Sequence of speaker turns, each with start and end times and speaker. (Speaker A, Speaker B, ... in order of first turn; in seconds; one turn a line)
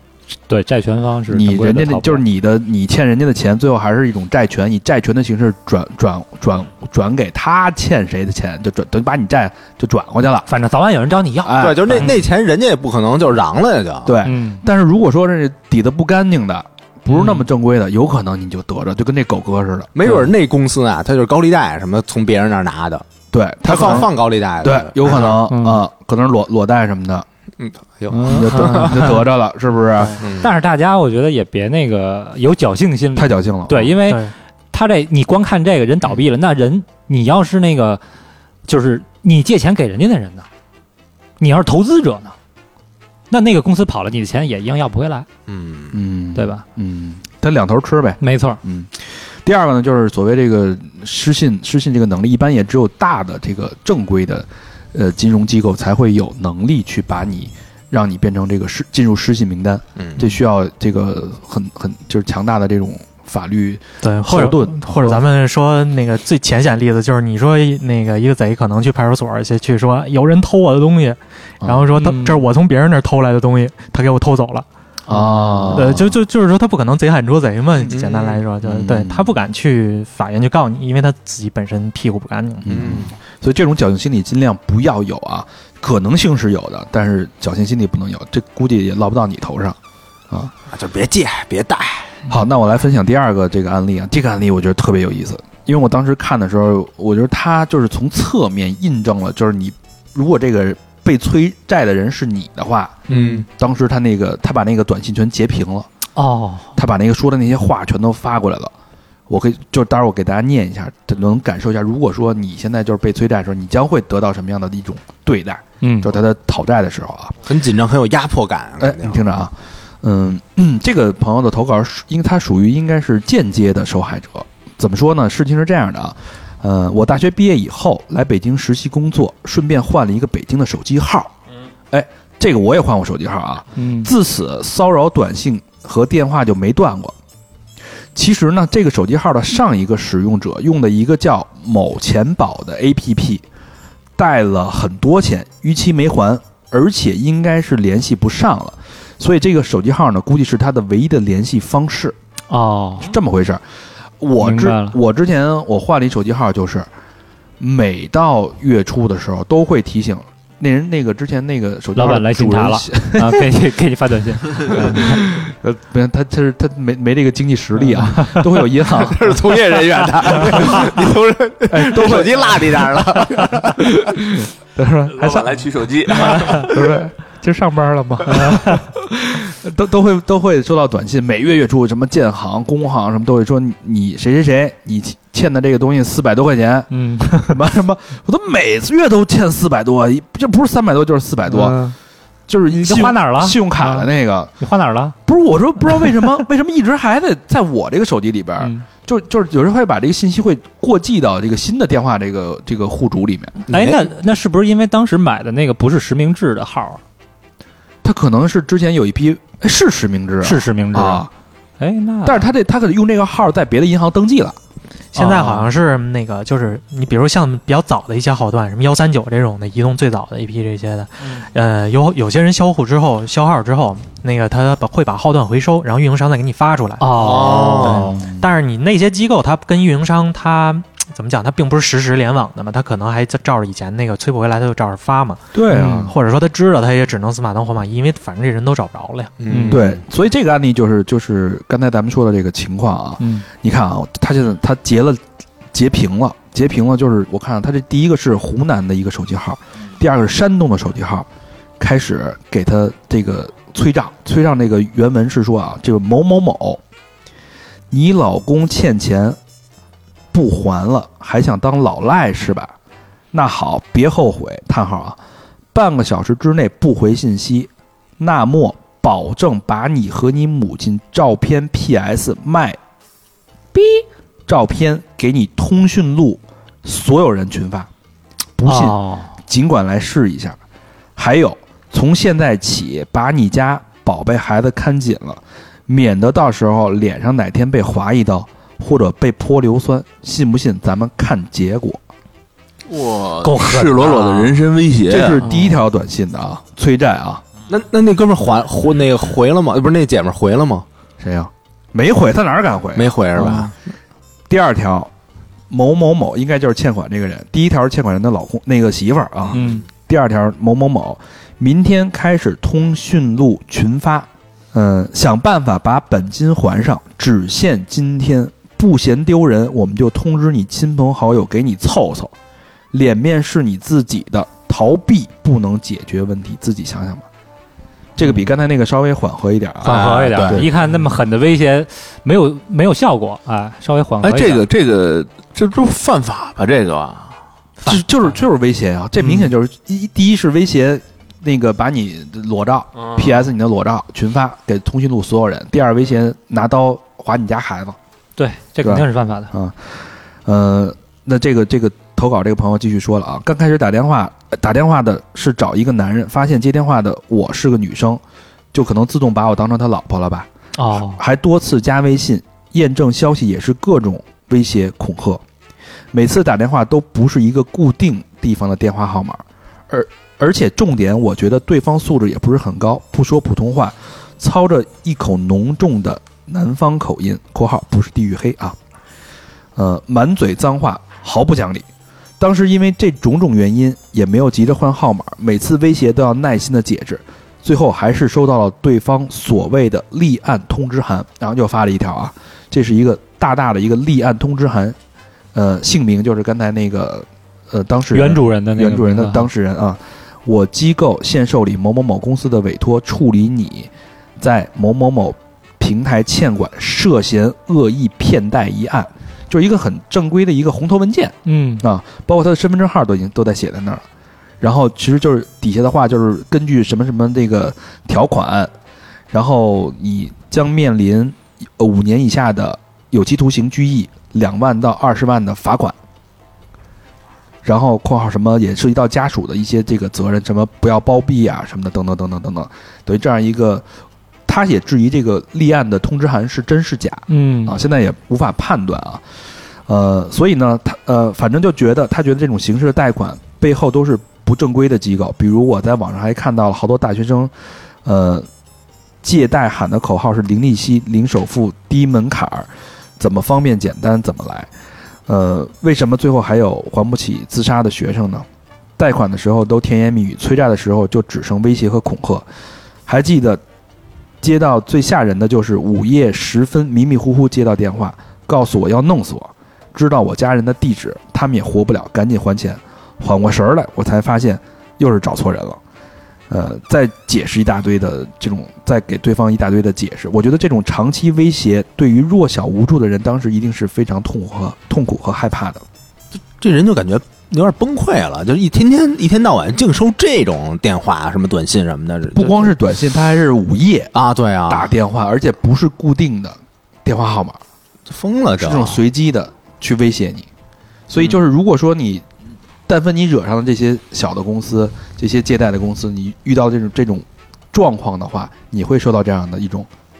Speaker A: 0.5-2.2
Speaker B: 1.3-10.5
Speaker A: 10.5-12.2
Speaker B: 11.4-12.2
Speaker C: 11.6-14.1
Speaker B: 14.0-19.9
Speaker A: 14.2-14.6
Speaker A: 17.1-17.5
Speaker C: 19.9-23.0
Speaker A: 20.0-20.3
Speaker B: 23.3-27.2
Speaker C: 23.6-25.4
Speaker A: 25.5-25.8
Speaker C: 27.6-29.1
Speaker A: 28.1-29.2
Speaker B: 28.2-30.2
Speaker C: 30.2-30.5
Speaker A: 30.4-38.0
Speaker B: 33.1-33.9
Speaker D: 34.1-34.3
Speaker A: 38.7-40.4
Speaker A: 41.4-42.3
Speaker A: 43.3-45.2
Speaker C: 45.5-46.0
Speaker B: 45.9-65.2
Speaker A: 46.3-46.6
Speaker A: 48.2-48.6
Speaker C: 60.0-60.3
Speaker D: 64.0-74.7
Speaker B: 71.6-71.9
Speaker A: 72.0-72.4
Speaker A: 75.1-75.9
Speaker B: 75.1-76.2
Speaker D: 75.7-82.7
Speaker C: 77.9-78.4
Speaker B: 78.6-79.3
Speaker B: 82.6-89.8
Speaker C: 82.7-83.1
Speaker C: 90.7-92.2
Speaker B: 92.3-105.9
Speaker C: 103.1-103.4
Speaker A: 106.2-106.7
Speaker B: 106.8-108.7
Speaker B: 109.3-117.4
Speaker A: 115.8-116.1
Speaker C: 117.5-119.3
Speaker B: 118.8-131.3
Speaker B: 131.9-137.1
Speaker A: 133.8-134.1
Speaker B: 138.1-143.4
Speaker B: 144.2-152.2
Speaker A: 152.5-153.1
Speaker B: 153.0-153.6
Speaker B: 154.2-156.9
Speaker A: 154.4-155.0
Speaker B: 157.6-163.5
Speaker A: 161.9-165.2
Speaker B: 164.7-169.4
Speaker A: 167.9-168.5
Speaker C: 169.1-173.8
Speaker E: 169.4-171.1
Speaker B: 170.4-170.8
Speaker B: 171.7-191.8
Speaker E: 175.1-176.7
Speaker A: 178.3-178.8
Speaker A: 186.9-187.6
Speaker A: 191.5-191.9
Speaker B: 192.5-194.5
Speaker A: 192.7-194.1
Speaker A: 194.6-195.1
Speaker B: 195.2-204.0
Speaker A: 198.6-198.8
Speaker A: 203.7-207.0
Speaker B: 208.0-211.3
Speaker A: 210.4-211.3
Speaker A: 211.8-212.5
Speaker B: 212.2-214.6
Speaker D: 215.1-227.7
Speaker A: 215.2-215.7
Speaker A: 227.0-228.2
Speaker C: 227.1-228.1
Speaker B: 227.6-228.4
Speaker D: 228.3-239.3
Speaker B: 235.5-236.1
Speaker A: 235.7-236.1
Speaker C: 239.4-240.0
Speaker A: 239.5-239.8
Speaker B: 239.7-245.2
Speaker A: 243.2-243.4
Speaker B: 245.7-251.3
Speaker B: 251.8-256.8
Speaker B: 257.9-259.4
Speaker B: 260.3-262.7
Speaker B: 263.3-265.2
Speaker B: 265.7-272.8
Speaker B: 274.5-277.9
Speaker B: 278.6-280.6
Speaker A: 278.6-279.3
Speaker B: 281.2-292.0
Speaker E: 292.9-295.4
Speaker C: 293.4-294.5
Speaker B: 295.1-297.4
Speaker C: 297.7-300.9
Speaker B: 301.2-303.7
Speaker C: 302.9-303.7
Speaker B: 304.5-305.1
Speaker B: 305.7-322.3
Speaker C: 309.5-309.8
Speaker A: 309.5-309.8
Speaker B: 322.9-327.2
Speaker B: 328.2-330.7
Speaker C: 329.8-330.6
Speaker A: 329.8-334.6
Speaker E: 334.2-337.3
Speaker B: 337.8-348.0
Speaker A: 339.2-339.5
Speaker A: 348.4-349.5
Speaker B: 348.8-349.9
Speaker B: 350.4-358.2
Speaker B: 358.7-365.4
Speaker A: 360.8-361.2
Speaker B: 366.1-378.8
Speaker B: 379.8-381.9
Speaker B: 382.4-395.0
Speaker B: 395.5-414.0
Speaker A: 398.1-399.5
Speaker A: 411.4-411.8
Speaker B: 414.6-418.7
Speaker B: 419.3-425.9
Speaker B: 427.6-433.9
Speaker B: 434.5-439.2
Speaker A: 437.3-437.8
Speaker B: 439.9-447.5
Speaker B: 448.0-448.5
Speaker B: 449.2-454.7
Speaker B: 455.3-458.4
Speaker B: 459.0-462.4
Speaker B: 463.1-463.6
Speaker B: 464.4-475.8
Speaker B: 476.5-485.8
Speaker C: 486.6-492.7
Speaker B: 492.3-494.1
Speaker C: 494.1-494.9
Speaker B: 494.7-497.6
Speaker C: 498.1-499.0
Speaker B: 498.6-500.5
Speaker B: 501.1-502.2
Speaker B: 502.9-509.9